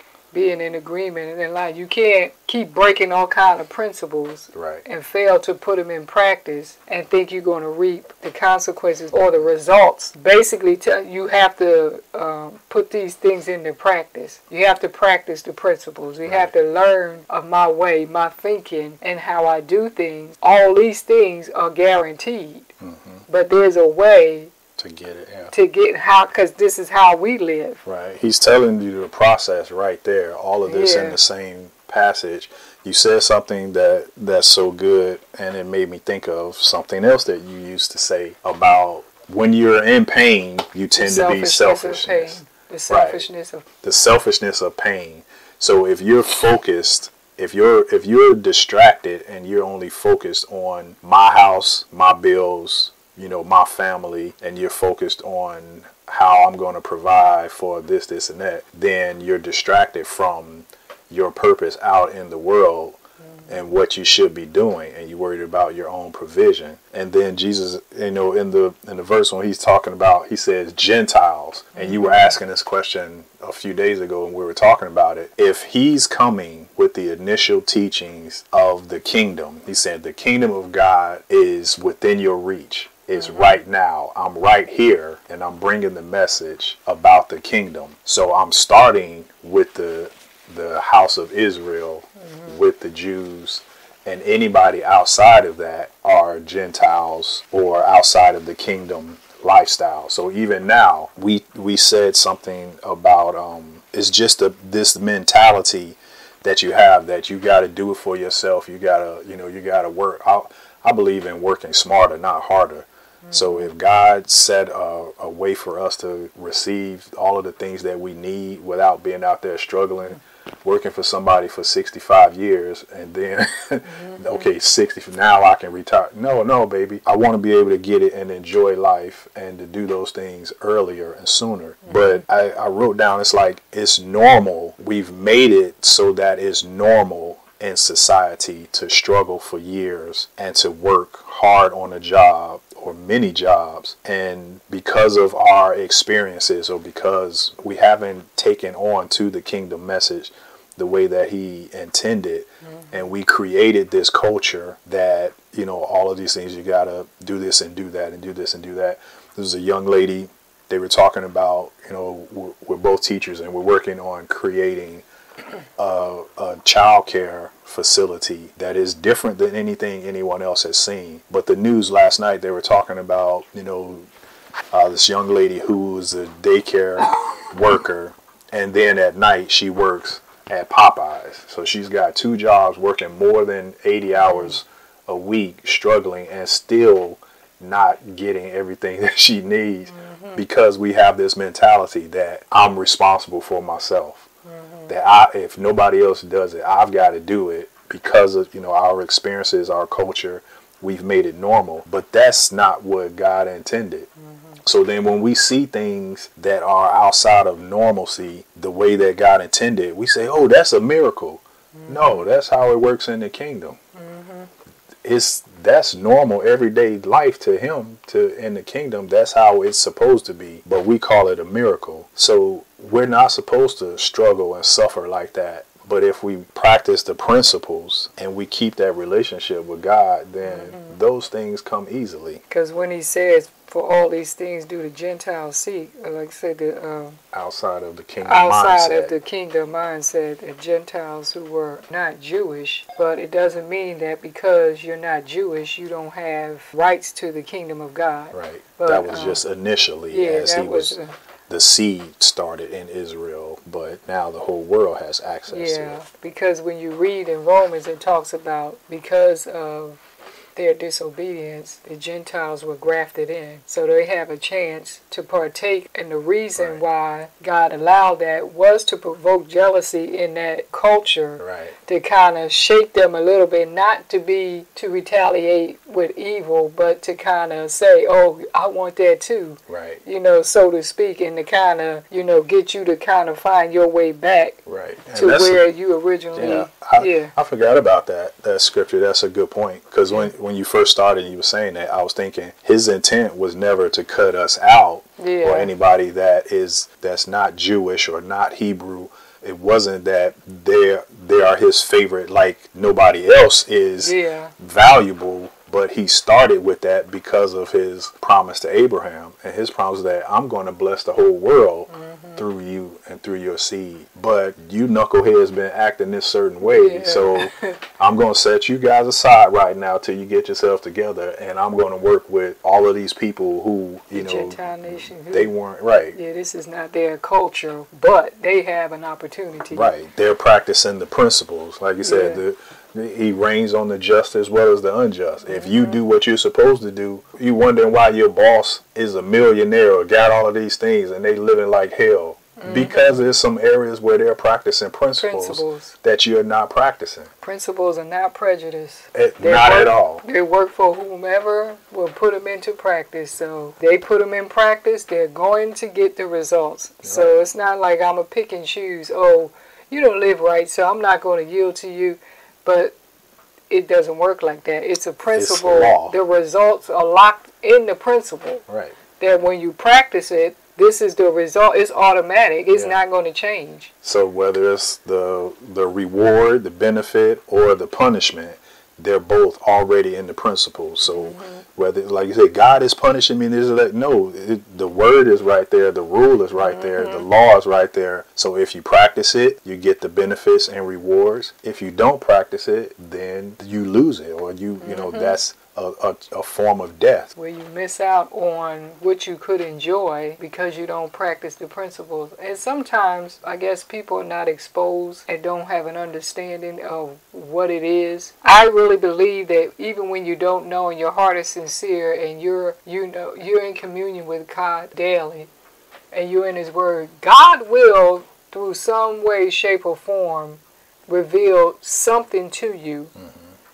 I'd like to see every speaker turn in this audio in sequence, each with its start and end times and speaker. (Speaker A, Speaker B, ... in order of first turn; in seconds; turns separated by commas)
Speaker A: 0.3-22.7, Speaker B: 4.5-4.8, Speaker B: 16.2-16.5, Speaker B: 22.8-23.2, Speaker A: 23.3-24.5, Speaker B: 24.8-25.5, Speaker A: 25.5-27.8, Speaker B: 27.8-43.2, Speaker A: 30.6-31.2, Speaker A: 41.0-43.6, Speaker B: 43.8-165.0, Speaker A: 71.7-72.3, Speaker A: 83.1-83.6, Speaker A: 92.2-92.6, Speaker A: 113.2-113.7, Speaker A: 123.9-124.4, Speaker A: 131.8-132.2, Speaker A: 152.6-153.0, Speaker B: 165.8-174.1, Speaker B: 174.7-194.3, Speaker A: 184.2-184.6, Speaker A: 189.9-190.4, Speaker A: 194.4-194.9, Speaker B: 194.9-204.1, Speaker A: 204.2-204.6, Speaker B: 204.6-213.8, Speaker A: 211.7-212.3, Speaker A: 213.9-214.5, Speaker B: 215.0-232.4, Speaker A: 230.4-230.9, Speaker A: 232.5-237.2, Speaker B: 237.3-239.1, Speaker A: 238.2-249.4, Speaker B: 248.3-251.0, Speaker A: 250.1-251.1, Speaker B: 251.5-256.0, Speaker A: 255.5-260.0, Speaker A: 260.5-284.6, Speaker B: 266.6-266.8, Speaker B: 271.4-271.7, Speaker B: 279.7-280.0, Speaker B: 284.6-285.6, Speaker A: 285.1-287.3, Speaker B: 286.3-326.2, Speaker A: 295.2-295.7, Speaker A: 304.0-304.5, Speaker A: 311.9-312.4, Speaker A: 316.6-317.8, Speaker A: 324.1-325.5, Speaker A: 326.1-329.9, Speaker B: 329.7-347.3, Speaker A: 332.0-332.4, Speaker A: 335.4-336.0, Speaker A: 342.6-343.2, Speaker A: 345.2-345.9, Speaker A: 347.4-362.9, Speaker B: 349.1-350.2, Speaker B: 357.0-357.4, Speaker A: 363.7-368.6, Speaker B: 365.3-366.1, Speaker B: 368.7-368.9, Speaker A: 369.2-373.9, Speaker B: 372.7-373.0, Speaker B: 374.0-397.3, Speaker A: 381.0-381.6, Speaker A: 386.6-387.2, Speaker A: 394.8-395.4, Speaker A: 397.3-415.5, Speaker A: 416.1-423.1, Speaker B: 423.1-423.5